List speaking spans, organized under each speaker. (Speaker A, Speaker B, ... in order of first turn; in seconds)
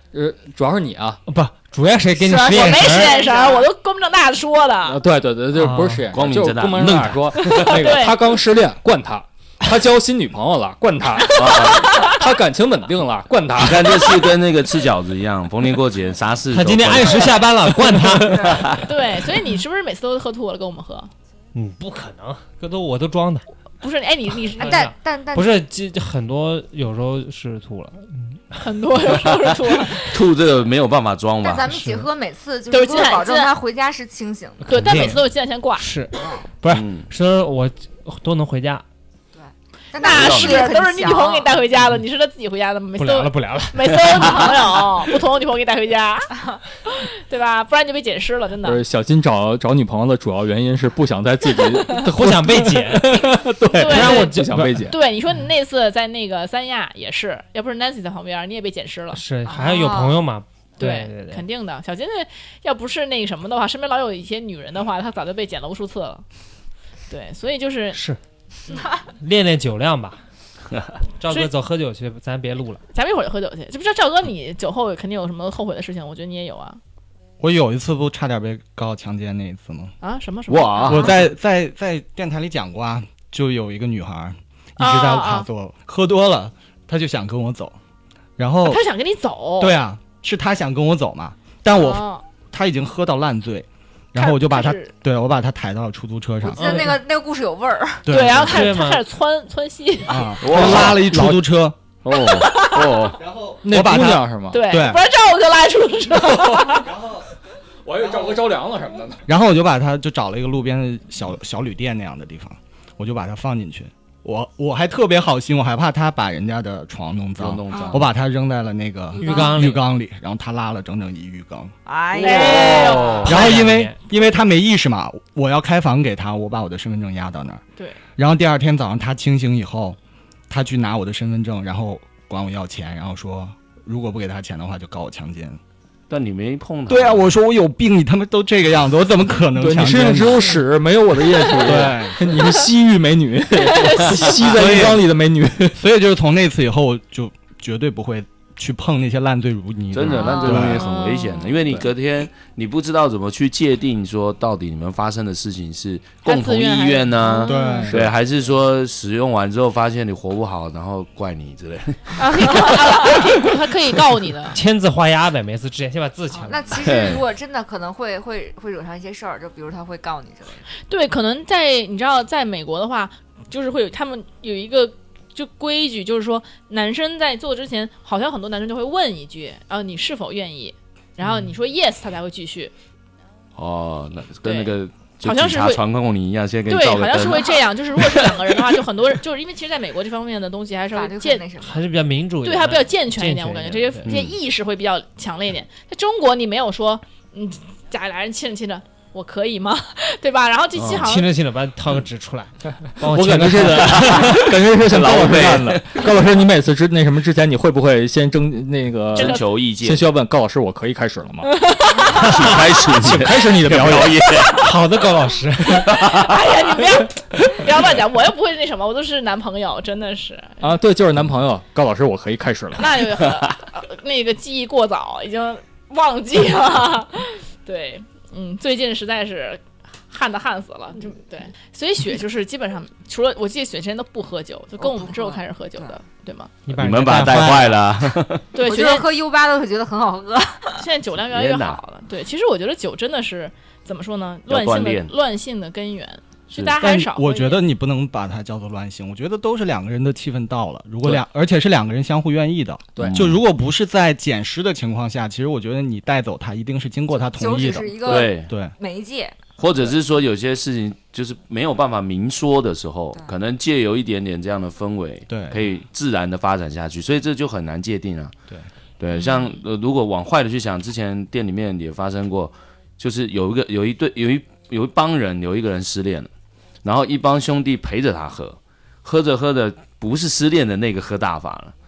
Speaker A: 0.1-1.2, 4.8-14.2, 48.6-55.0, 100.5-101.4, 103.6-104.7, 107.8-109.2, 139.6-145.8, 203.0-214.4, 220.6-223.0, 237.1-237.4, 252.9-253.2
Speaker B: 1.3-3.1, 5.5-6.1, 16.5-18.8, 21.5-23.4, 24.6-28.6, 31.6-32.0, 34.6-35.2, 35.8-38.8, 43.0-44.3, 51.9-53.2, 53.8-54.8, 59.1-61.4, 67.9-68.2, 68.9-70.2, 71.2-72.8, 96.5-97.0, 98.4-99.0, 119.2-119.8, 123.1-124.0, 164.5-167.0, 191.6-194.1, 200.9-204.3, 214.4-216.1, 236.7-237.8
Speaker C: 2.1-3.7, 17.1-18.8, 24.6-25.6, 31.4-34.7, 39.3-41.6, 44.3-44.7, 59.5-60.2, 68.7-69.0, 80.9-81.1, 96.5-98.1, 117.7-118.0, 119.1-119.5, 121.9-123.2, 150.1-150.6, 157.2-157.9, 166.3-170.7, 190.9-191.8, 234.8-236.0, 238.6-240.8, 257.3-259.4, 269.1-269.5
Speaker D: 2.5-5.0, 7.4-8.2, 11.2-12.2, 18.8-21.1, 23.8-24.9, 28.6-30.1, 32.7-33.5, 34.7-35.9, 39.9-46.3, 46.8-48.8, 53.7-59.6, 60.8-66.2, 67.1-68.0, 72.9-76.8, 80.0-81.2, 84.8-85.5, 88.7-89.7, 91.7-92.2, 94.2-94.9, 98.1-100.4, 102.1-103.1, 104.5-106.9, 122.1-123.3, 143.7-144.5, 150.1-151.5, 156.2-157.9, 162.2-164.6, 170.9-182.7, 184.4-185.8, 186.7-191.4, 192.4-201.3, 209.2-209.4, 211.5-212.3, 215.9-220.6, 222.8-236.5, 238.5-239.1, 240.8-247.6
Speaker E: 6.1-7.8, 11.3-12.1, 13.6-18.9, 29.9-31.6, 36.7-37.0, 40.0-40.6, 80.5-81.2, 100.4-101.1, 102.0-103.2, 117.4-118.1, 122.2-123.5, 136.1-137.4, 144.1-145.0, 149.9-163.4, 166.7-167.2, 183.6-188.6, 194.1-194.3, 200.7-201.1, 203.8-206.0, 209.1-210.1, 212.2-214.6, 215.8-216.6, 236.7-238.4, 241.3-241.8, 244.5-245.1, 253.0-253.4, 258.0-258.5, 259.6-268.3, 269.0-276.3, 276.8-281.7
Speaker F: 77.4-79.9, 80.8-87.7, 88.4-88.8, 89.6-96.9, 98.0-98.7, 100.0-101.8, 103.1-105.0, 106.7-107.2, 108.0-108.4, 109.3-121.7, 123.2-127.6, 128.2-130.0, 130.5-135.6, 136.9-140.6, 141.5-142.2, 144.6-144.9, 145.8-150.9, 157.5-158.1, 246.8-258.7, 265.3-265.6